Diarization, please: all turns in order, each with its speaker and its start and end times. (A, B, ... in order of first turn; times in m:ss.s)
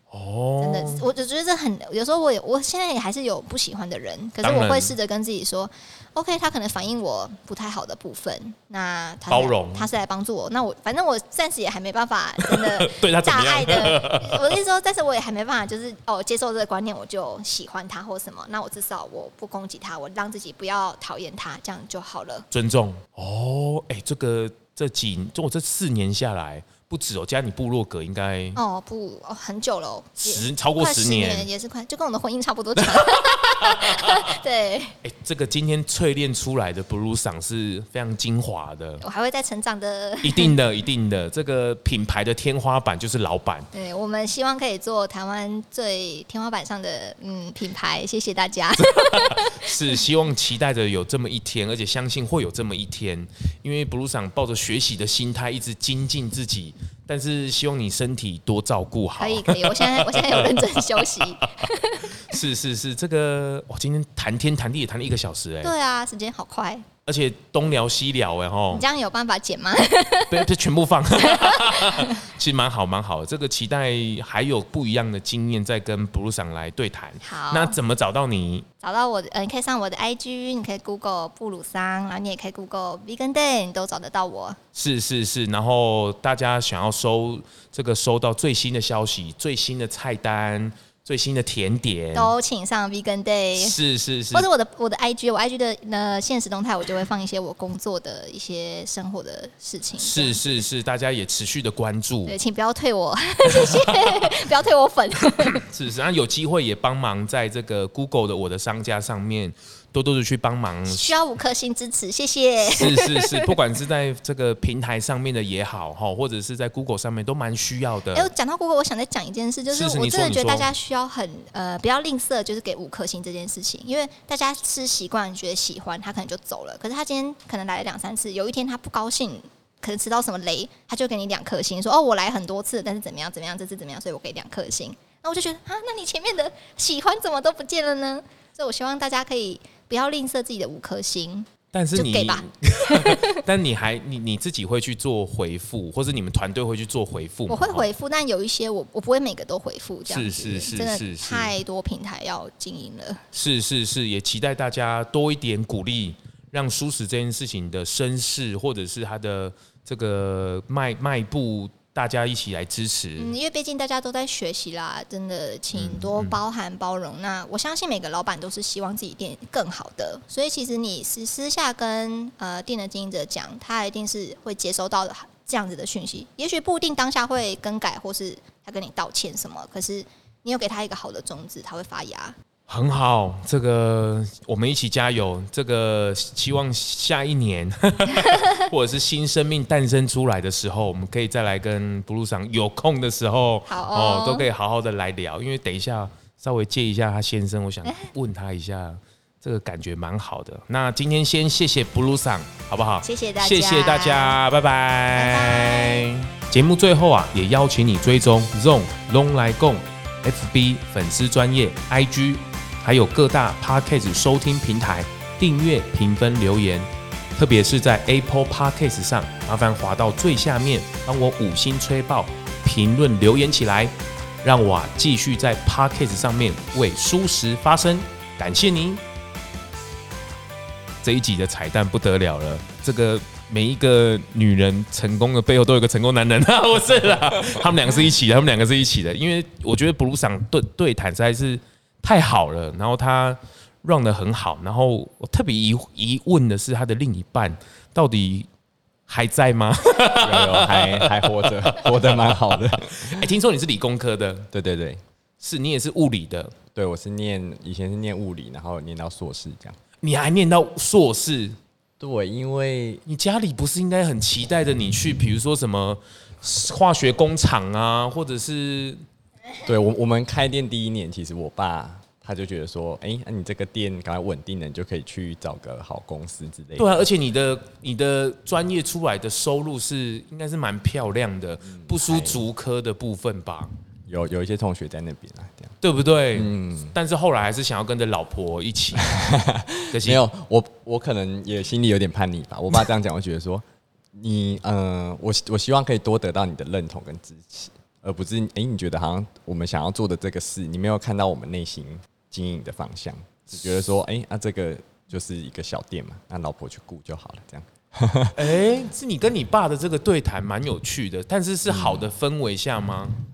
0:00.1-0:01.1 A
0:00.6-0:22.5 B
0:04.4-0:04.9 A
0:09.3-0:09.9 A
0:12.4-0:14.6 A
0:22.5-0:28.6 A
0:28.6-0:35.0 B
0:30.2-0:31.5 A
0:32.8-0:34.3 A
0:35.0-0:39.0 A
0:39.0-0:40.6 B
0:40.2-0:43.7 A
0:43.7-0:50.0 B
0:48.8-1:05.7 A
0:59.2-1:02.4 B
1:05.6-1:06.9 B
1:07.0-1:08.8 A
1:08.7-1:10.5 B
1:10.3-1:18.6 A
1:11.2-1:12.2 B
1:17.2-1:17.8 B
1:18.8-1:24.6 B
1:24.7-1:32.3 A
1:32.1-1:33.8 B
1:33.6-1:34.5 A
1:34.3-1:40.4 B
1:40.0-1:42.4 A
1:42.2-1:45.6 B
1:43.5-1:44.3 A
1:45.5-1:51.1 A
1:50.9-1:53.5 B
1:52.6-1:58.3 A
1:58.1-2:23.4 B
1:59.7-2:00.7 A
2:21.7-2:27.9 A
2:27.5-2:33.2 B
2:30.1-2:31.5 A
2:33.3-2:43.3 A
2:43.2-3:02.4 B
2:45.7-2:46.4 A
3:02.7-3:49.0 A
3:13.7-3:14.5 B
3:23.0-3:24.4 B
3:25.1-3:26.1 B
3:51.0-4:08.5 A
4:09.1-4:14.5 A
4:10.2-4:13.3 C
4:14.5-4:15.0 C
4:15.4-4:16.6 A
4:16.7-4:19.8 C
4:20.0-4:21.6 A
4:22.0-4:23.0 C
4:23.0-4:29.0 A
4:29.6-4:37.0 C
4:36.8-4:43.7 A
4:41.6-4:42.4 C
4:44.1-4:45.8 C
4:45.8-4:49.2 A
4:46.3-4:46.9 C
4:49.0-5:08.6 C
4:49.9-4:50.2 A
5:08.4-5:13.2 A
5:11.6-5:12.1 C